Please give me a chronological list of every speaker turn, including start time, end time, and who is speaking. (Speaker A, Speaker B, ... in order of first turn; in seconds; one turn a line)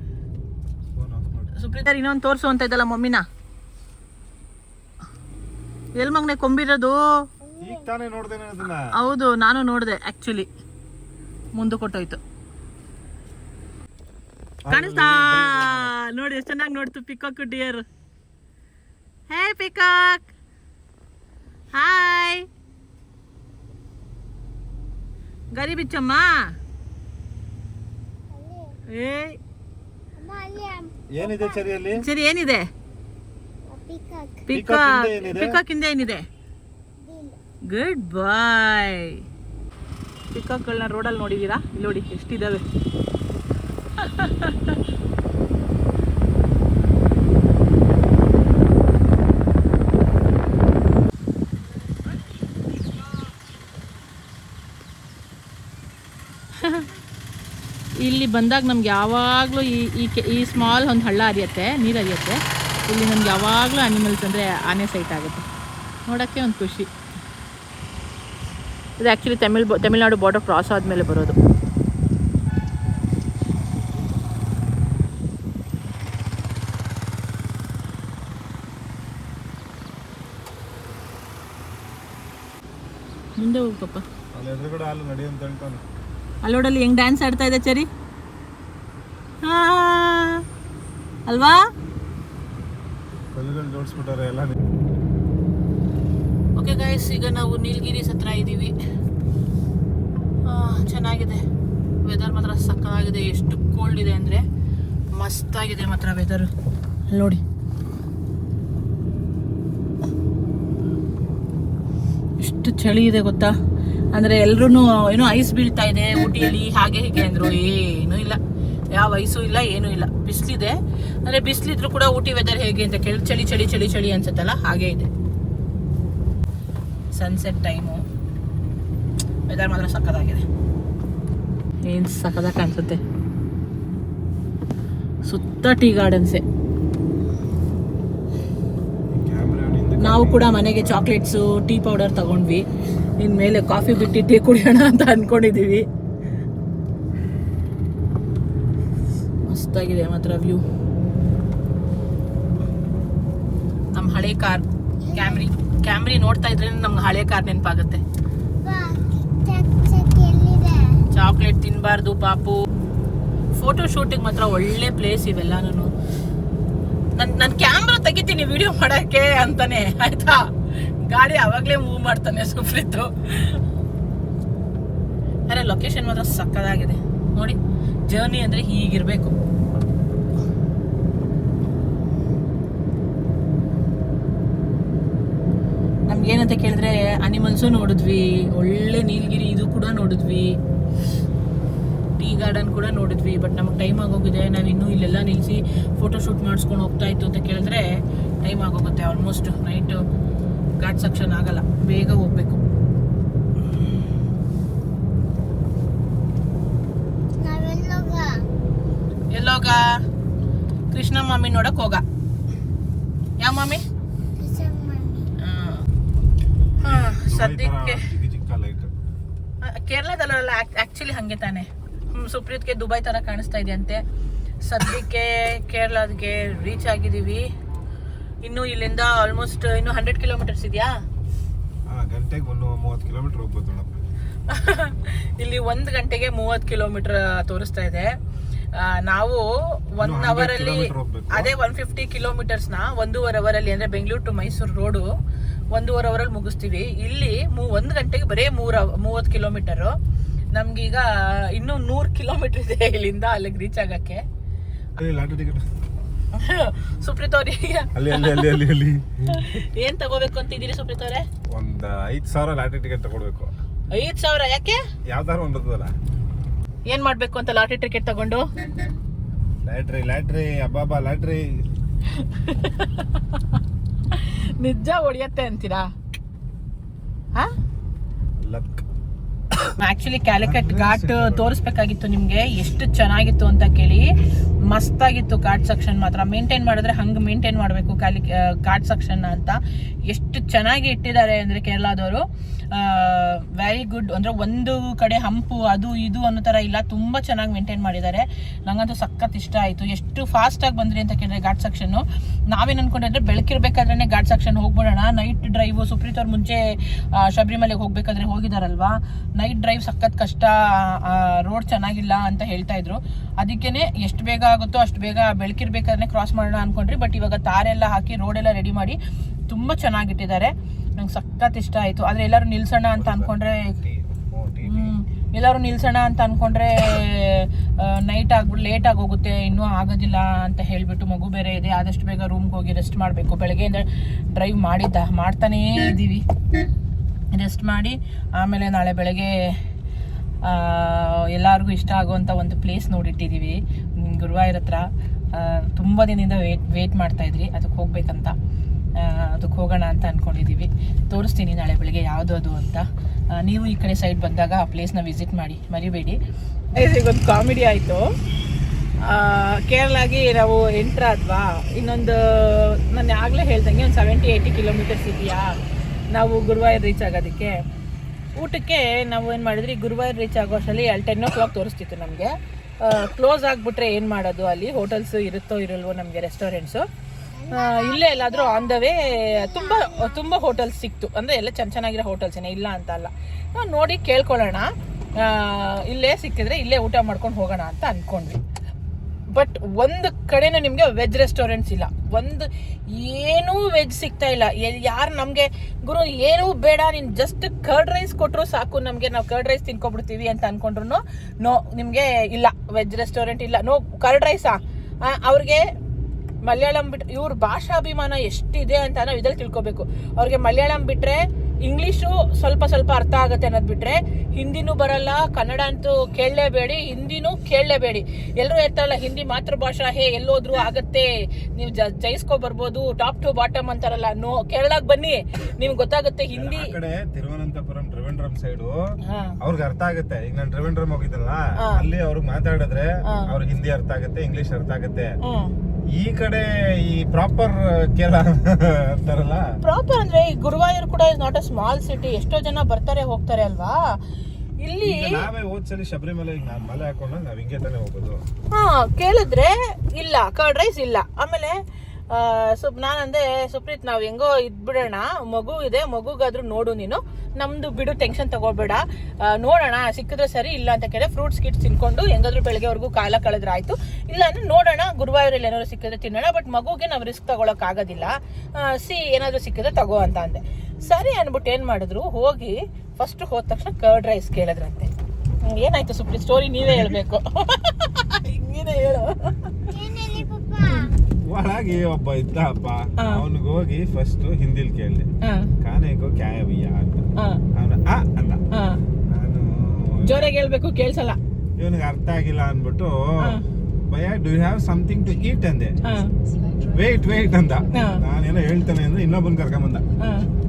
Speaker A: 0.9-1.5
Speaker B: 1.5-3.2
Speaker B: 5.9-7.2
Speaker C: 7.4-7.9
Speaker A: 7.6-8.9
Speaker B: 8.9-10.5
Speaker B: 11.5-12.2
Speaker A: 14.6-15.9
Speaker B: 14.7-17.8
Speaker B: 19.3-20.3
Speaker B: 21.7-22.5
Speaker B: 25.5-26.5
Speaker C: 28.3-28.7
Speaker B: 28.9-29.4
Speaker C: 30.2-31.7
Speaker A: 31.1-32.0
Speaker B: 32.0-32.7
Speaker C: 33.7-34.5
Speaker B: 34.5-36.2
Speaker A: 34.5-35.6
Speaker C: 37.0-37.4
Speaker B: 37.7-39.2
Speaker B: 40.3-42.6
Speaker B: 44.0-44.8
Speaker B: 56.6-56.9
Speaker B: 58.0-65.5
Speaker B: 66.1-66.9
Speaker B: 69.0-71.4
Speaker B: 83.4-84.0
Speaker A: 84.3-85.8
Speaker B: 86.4-87.9
Speaker B: 89.4-90.4
Speaker B: 91.3-91.6
Speaker A: 93.3-94.6
Speaker B: 96.5-98.7
Speaker B: 100.4-101.4
Speaker B: 102.0-104.4
Speaker B: 105.1-106.5
Speaker B: 107.1-107.4
Speaker B: 112.4-113.5
Speaker B: 114.1-118.4
Speaker B: 118.9-125.1
Speaker B: 127.1-128.0
Speaker B: 129.5-130.4
Speaker B: 131.8-133.0
Speaker B: 135.2-136.4
Speaker A: 139.1-141.2
Speaker B: 140.0-142.7
Speaker B: 143.2-145.8
Speaker B: 149.4-150.6
Speaker B: 153.9-158.0
Speaker C: 155.0-155.5
Speaker C: 158.6-161.0
Speaker B: 161.1-162.7
Speaker B: 163.6-165.9
Speaker B: 167.1-170.5
Speaker B: 171.0-173.6
Speaker B: 175.5-177.6
Speaker B: 178.1-179.3
Speaker B: 186.1-190.6
Speaker B: 192.2-197.9
Speaker B: 198.4-200.0
Speaker B: 200.8-202.6
Speaker C: 207.4-208.4
Speaker B: 209.3-210.0
Speaker B: 210.9-212.0
Speaker B: 213.4-213.8
Speaker C: 214.4-215.3
Speaker B: 215.4-215.8
Speaker A: 216.8-218.9
Speaker B: 216.8-218.1
Speaker B: 219.6-224.0
Speaker B: 224.6-227.4
Speaker B: 228.4-230.9
Speaker A: 231.9-234.0
Speaker B: 234.5-238.1
Speaker B: 238.7-245.1
Speaker A: 240.0-241.5
Speaker B: 245.7-249.9
Speaker B: 250.5-254.2
Speaker A: 255.0-255.6
Speaker B: 256.3-258.6
Speaker A: 257.9-259.6
Speaker B: 259.3-261.2
Speaker A: 261.5-263.5
Speaker B: 263.9-264.8
Speaker A: 265.1-265.9
Speaker B: 266.9-268.5
Speaker A: 269.6-271.6
Speaker B: 272.1-273.6
Speaker B: 274.1-275.9
Speaker A: 278.4-278.8
Speaker A: 279.5-279.8
Speaker B: 279.8-284.1
Speaker A: 280.4-281.6
Speaker B: 284.7-319.0
Speaker B: 319.5-323.8
Speaker A: 322.9-324.9
Speaker B: 324.6-336.2
Speaker B: 337.3-339.5
Speaker B: 340.4-348.3
Speaker B: 349.0-356.2
Speaker B: 356.7-358.1
Speaker B: 359.0-365.5
Speaker B: 366.1-367.6
Speaker B: 368.4-376.9
Speaker C: 377.3-380.6
Speaker B: 377.5-388.4
Speaker B: 389.3-405.6
Speaker B: 406.4-426.7
Speaker A: 426.3-428.8
Speaker B: 429.0-429.4
Speaker A: 429.4-435.1
Speaker B: 431.6-431.8
Speaker B: 433.0-433.3
Speaker B: 435.2-435.5
Speaker A: 435.9-439.5
Speaker B: 439.6-444.0
Speaker B: 444.6-445.2
Speaker A: 444.8-448.2
Speaker B: 448.5-451.6
Speaker B: 452.1-474.9
Speaker B: 475.4-479.6
Speaker A: 476.6-476.9
Speaker C: 479.7-480.9
Speaker A: 481.2-485.1
Speaker B: 485.2-485.5
Speaker A: 485.6-488.4
Speaker B: 488.5-488.8
Speaker A: 489.1-490.3
Speaker B: 490.1-491.2
Speaker A: 491.6-493.4
Speaker A: 493.9-495.8
Speaker B: 495.8-496.1
Speaker A: 496.6-499.9
Speaker B: 497.7-498.0
Speaker B: 500.0-500.3